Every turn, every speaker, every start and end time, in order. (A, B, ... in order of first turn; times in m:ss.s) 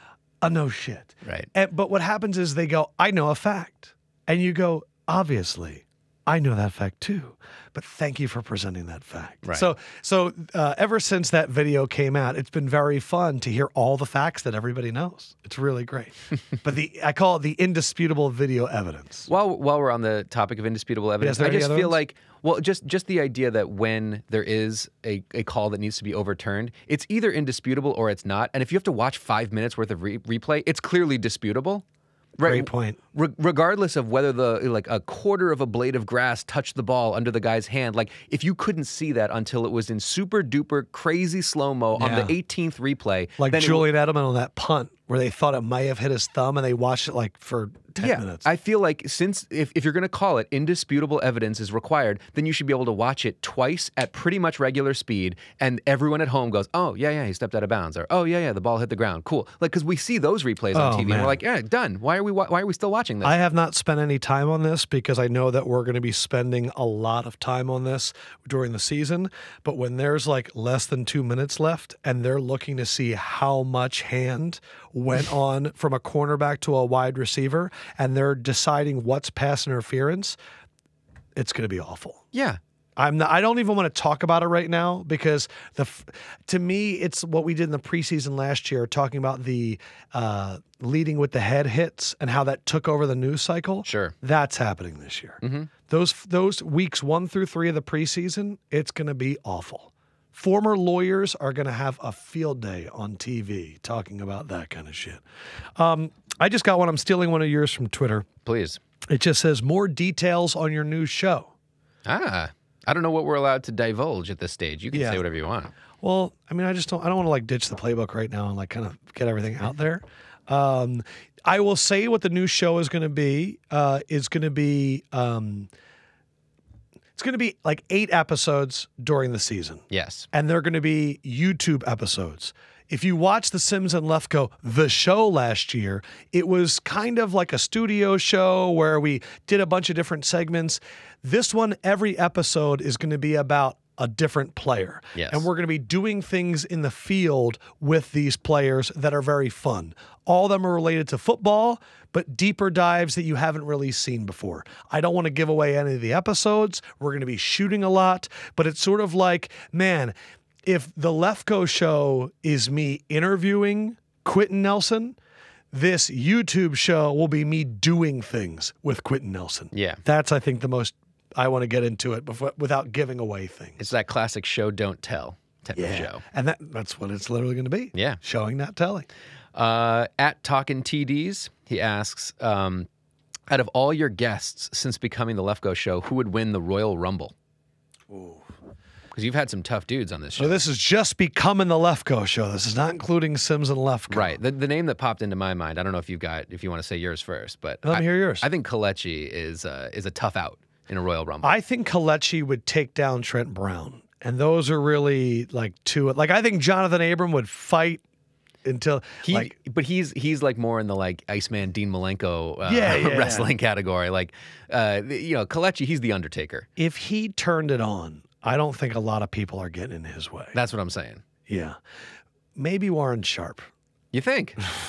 0:00.4-0:19.3 A
0:19.3-0:31.8 B
0:21.2-0:22.0 A
0:32.4-0:43.8 B
0:32.4-0:33.0 A
0:42.0-0:42.3 A
0:43.4-0:48.4 A
0:48.0-1:03.3 B
1:00.7-1:01.4 A
1:03.2-1:20.4 A
1:21.4-1:22.2 A
1:22.3-1:22.6 B
1:23.0-1:45.2 A
1:33.8-1:34.1 B
1:35.4-1:35.7 B
1:45.8-1:48.2 A
1:48.4-1:48.8 B
1:49.1-1:51.5 A
1:52.0-1:55.7 B
1:54.9-1:55.2 A
1:56.0-2:05.7 A
2:07.2-2:40.1 A
2:09.9-2:10.3 B
2:25.1-2:25.4 B
2:40.6-2:45.2 A
2:45.7-2:53.8 A
2:49.7-2:50.0 B
2:53.8-2:56.2 B
2:55.7-2:59.1 A
2:57.9-2:58.2 B
2:59.5-3:02.9 B
3:03.5-3:07.3 B
3:08.1-3:08.4 A
3:09.1-3:10.6 B
3:10.4-3:14.4 A
3:14.1-3:21.5 B
3:17.8-3:18.5 A
3:21.4-3:28.0 A
3:28.6-3:29.5 A
3:29.2-3:36.7 B
3:32.6-3:33.5 A
3:36.8-3:40.5 A
3:40.5-3:41.2 B
3:41.5-3:41.8 A
3:42.6-3:43.7 A
3:44.1-3:44.7 B